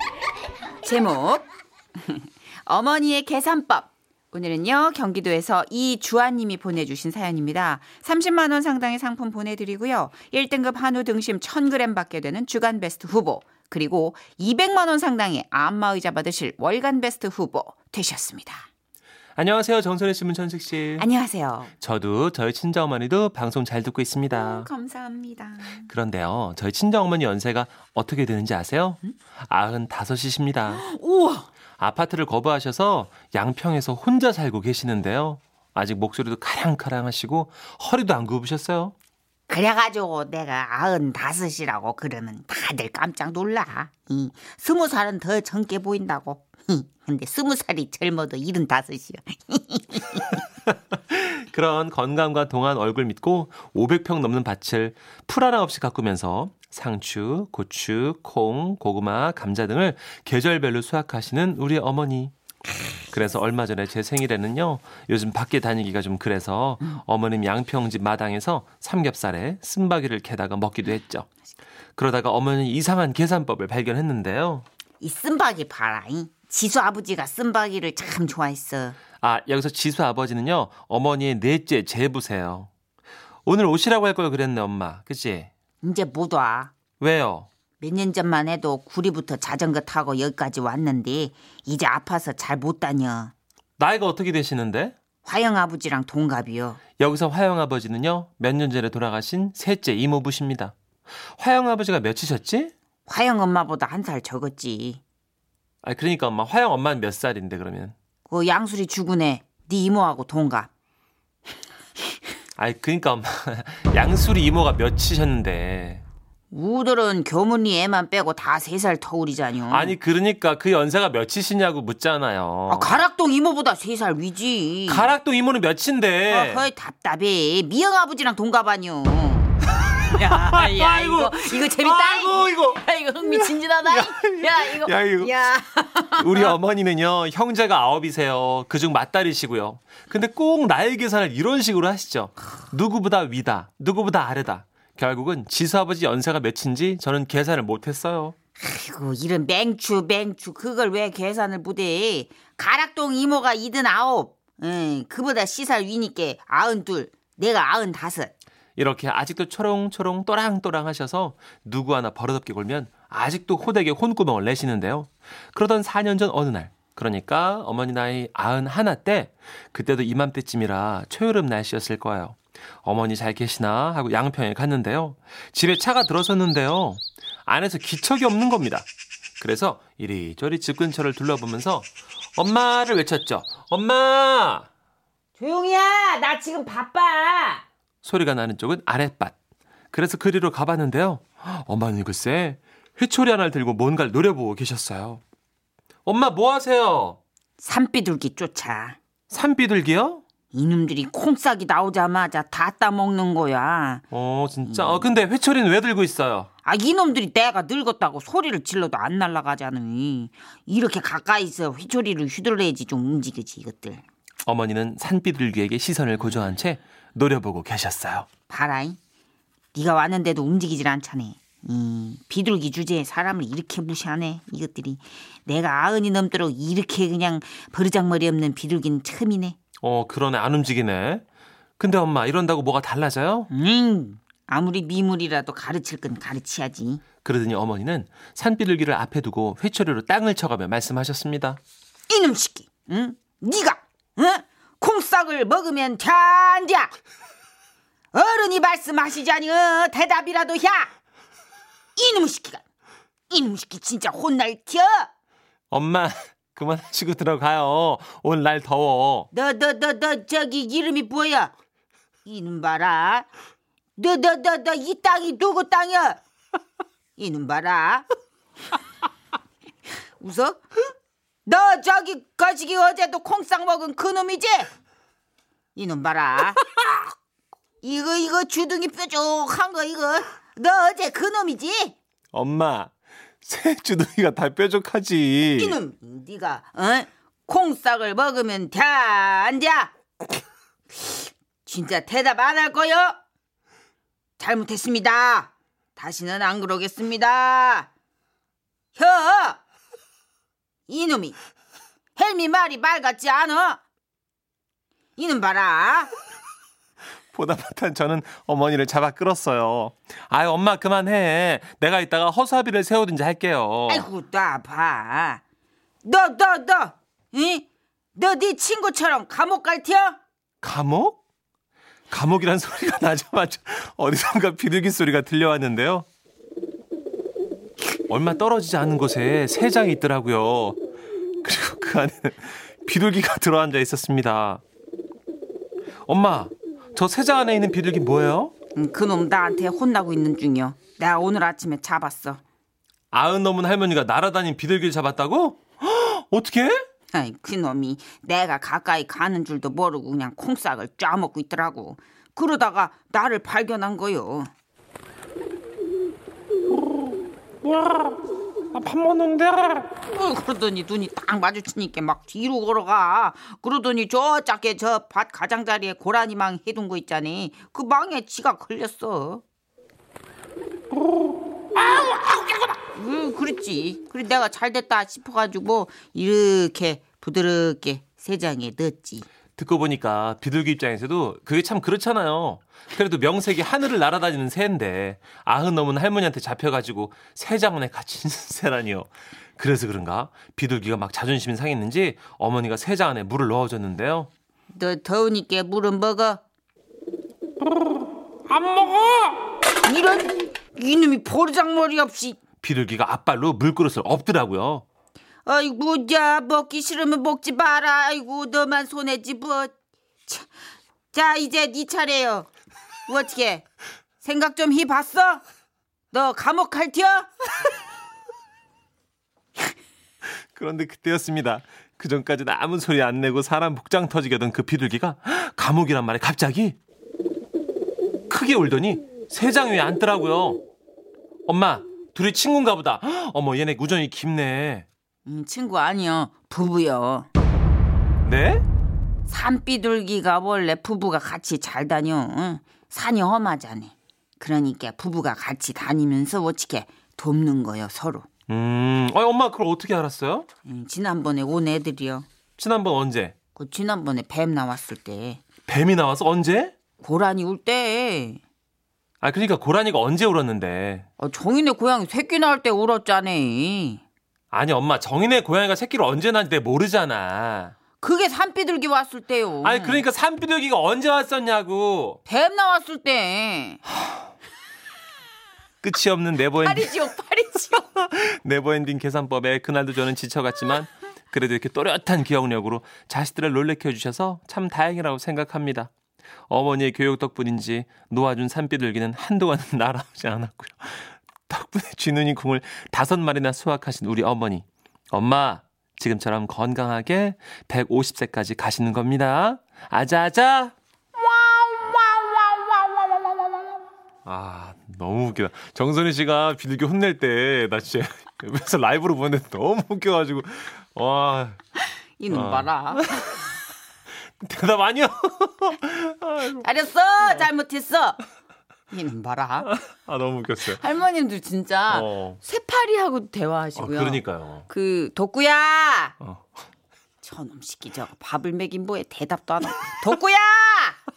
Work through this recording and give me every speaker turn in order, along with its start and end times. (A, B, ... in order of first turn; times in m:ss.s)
0:00.8-0:01.4 A
0:02.0-0:18.6 A
0:19.4-0:21.0 B
0:21.0-0:21.7 A
0:21.8-0:24.7 B
0:24.3-0:25.9 A
0:25.9-0:30.8 B
0:30.7-0:31.5 A
0:31.8-0:38.9 B
0:39.5-0:50.4 A
0:50.7-1:02.3 B
1:03.1-1:11.3 B
1:12.0-1:14.6 B
1:15.0-1:19.0 A
1:19.2-1:22.7 B
1:23.4-1:25.5 B
1:25.8-1:26.7 A
1:27.0-1:27.5 B
1:27.8-1:33.3 A
1:33.8-1:35.0 B
1:35.2-1:36.8 A
1:37.0-1:40.7 B
1:41.4-1:42.7 B
1:43.0-1:45.0 A
1:45.8-1:47.9 B
1:48.2-1:50.7 A
1:52.6-1:56.0 B
1:56.5-1:59.9 A
1:59.7-2:03.0 B
2:02.7-2:05.1 A
2:04.9-2:06.7 B
2:06.3-2:16.5 A
2:09.8-2:15.3 B
2:16.2-2:28.3 B
2:28.6-2:38.3 A
2:38.8-2:58.8 B
2:59.4-3:04.7 B
3:05.4-3:07.6 A
3:08.0-3:09.4 B
3:09.9-3:15.2 B
3:16.0-3:17.2 B
3:17.6-3:19.0 A
3:19.3-3:20.2 B
3:20.5-3:24.0 A
3:24.1-3:26.5 B
3:24.6-3:25.1 A
3:26.6-3:34.0 A
3:34.4-3:38.3 B
3:38.5-3:39.0 A
3:39.7-3:49.6 A
3:49.8-3:51.2 B
3:51.8-3:53.5 B
3:53.5-3:57.0 A
3:57.2-4:01.6 B
4:02.1-4:06.9 A
4:08.1-4:10.9 A
4:12.0-4:12.6 A
4:13.3-4:15.1 A
4:15.7-4:19.3 B
4:19.3-4:21.5 A
4:22.2-4:23.3 A
4:24.0-4:26.2 A
4:27.2-4:28.1 A
4:30.2-4:30.6 A
4:31.4-4:34.7 A
4:35.7-4:36.8 A
4:37.8-4:41.9 A
4:42.3-4:42.9 B
4:43.4-4:45.8 B
4:45.5-4:49.9 A
4:50.9-4:53.2 A
4:54.4-4:57.9 A
4:58.9-4:59.6 A
5:00.9-5:01.4 A
5:02.2-5:03.8 A
5:05.2-5:06.1 A
5:07.3-5:14.1 B
5:13.9-5:15.4 A
5:16.0-5:20.2 A
5:20.6-5:21.2 B
5:22.1-5:26.0 B
5:28.1-5:30.8 B
5:31.4-5:34.6 B
5:36.0-5:38.5 B
5:38.7-5:42.4 A
5:43.1-5:46.8 B
5:47.1-5:54.5 A
5:56.8-5:58.2 B
5:58.7-5:59.9 B
6:00.1-6:09.4 A
6:11.8-6:19.3 A
6:19.6-6:34.3 B
6:34.7-6:36.4 A
6:38.5-6:39.4 B
6:39.8-6:42.4 A
6:42.6-6:44.8 B
6:45.4-6:49.7 A
6:51.1-6:52.5 A
6:53.1-6:53.6 A
6:54.2-6:55.4 A
6:56.1-6:57.4 A
7:00.2-7:06.8 B
7:08.3-7:10.6 B
7:11.5-7:14.8 B
7:15.2-7:17.3 A
7:18.2-7:18.6 B
7:19.3-7:28.3 A
7:28.5-7:30.5 B
7:30.6-7:32.2 A
7:32.6-7:33.3 B
7:33.5-7:35.4 A
7:35.7-7:36.7 B
7:37.0-7:38.4 A
7:39.2-7:41.0 B
7:41.2-7:44.0 A
7:44.5-7:47.7 B
7:48.0-7:50.0 A
7:49.6-7:52.2 B
7:52.2-7:53.8 A
7:55.8-7:57.0 B
7:56.6-7:57.8 A
7:57.8-8:05.9 B
8:06.5-8:20.7 B
8:21.5-8:23.2 A
8:24.2-8:31.6 B
8:32.2-8:33.2 A
8:32.3-8:33.5 B
8:34.4-8:36.6 B
8:36.6-8:38.2 A
8:38.9-8:39.7 A
8:39.6-8:40.8 B
8:40.7-8:46.1 A
8:41.9-8:42.4 B
8:43.8-8:44.6 B
8:47.2-8:51.0 A